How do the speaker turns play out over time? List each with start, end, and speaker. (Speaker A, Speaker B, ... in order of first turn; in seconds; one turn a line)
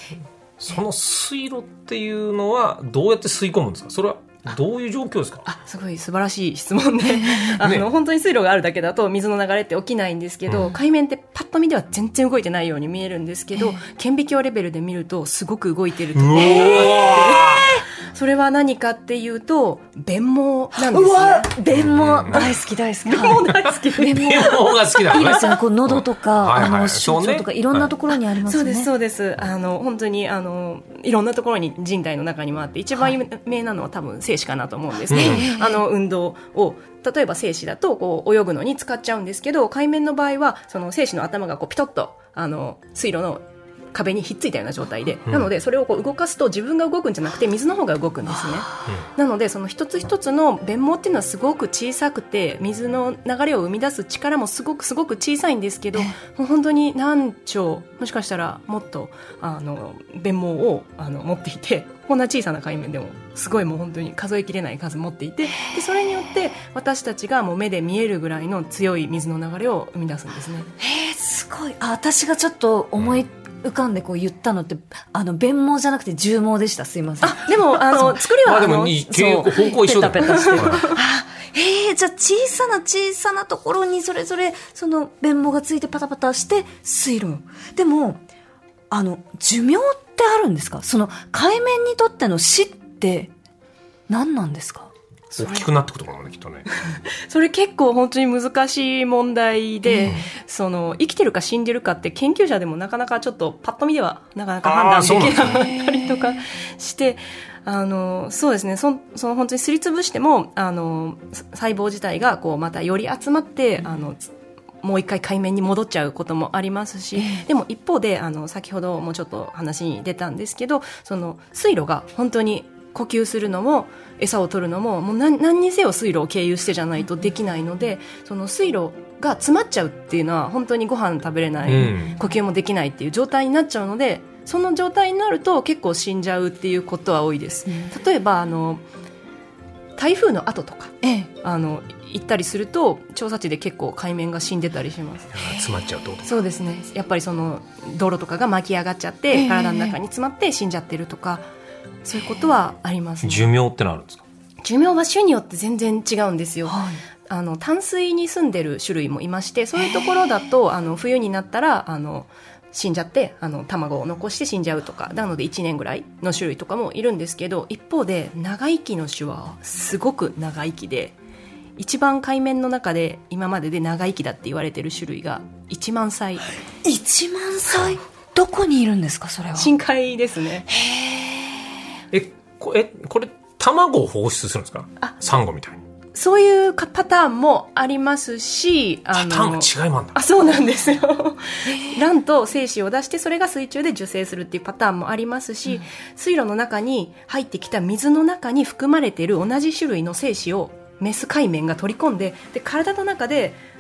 Speaker A: 0.6-5.5
Speaker B: 5.5-21.5
Speaker C: 7.1-7.6
Speaker A: 7.6-7.9
Speaker A: 16.1-17.8
Speaker C: 16.5-17.4
Speaker C: 20.8-28.9
Speaker A: 21.7-22.5
Speaker B: 23.1-25.4
Speaker A: 24.0-27.9
Speaker B: 28.4-70.7
Speaker A: 35.1-35.5
Speaker C: 35.1-35.8
Speaker C: 48.3-48.9
Speaker C: 70.8-78.2
Speaker B: 77.2-79.2
Speaker A: 78.4-80.9
Speaker C: 79.1-88.2
Speaker B: 80.1-81.0
Speaker C: 88.9-93.3
Speaker C: 94.1-94.9
Speaker B: 95.3-95.7
Speaker A: 95.4-96.7
Speaker B: 96.9-114.3
Speaker C: 99.9-100.1
Speaker A: 104.6-105.7
Speaker C: 105.5-106.4
Speaker B: 114.8-138.8
Speaker C: 117.2-117.4
Speaker A: 131.7-132.1
Speaker B: 140.0-145.4
Speaker C: 141.0-141.3
Speaker A: 145.3-146.3
Speaker B: 146.2-151.5
Speaker C: 149.3-150.0
Speaker B: 152.0-153.5
Speaker A: 153.2-154.2
Speaker B: 154.6-171.2
Speaker C: 156.7-157.0
Speaker B: 171.8-176.5
Speaker C: 176.8-179.7
Speaker B: 179.6-180.7
Speaker C: 180.7-181.7
Speaker A: 182.1-185.8
Speaker B: 186.1-203.6
Speaker A: 189.1-190.2
Speaker C: 191.7-192.1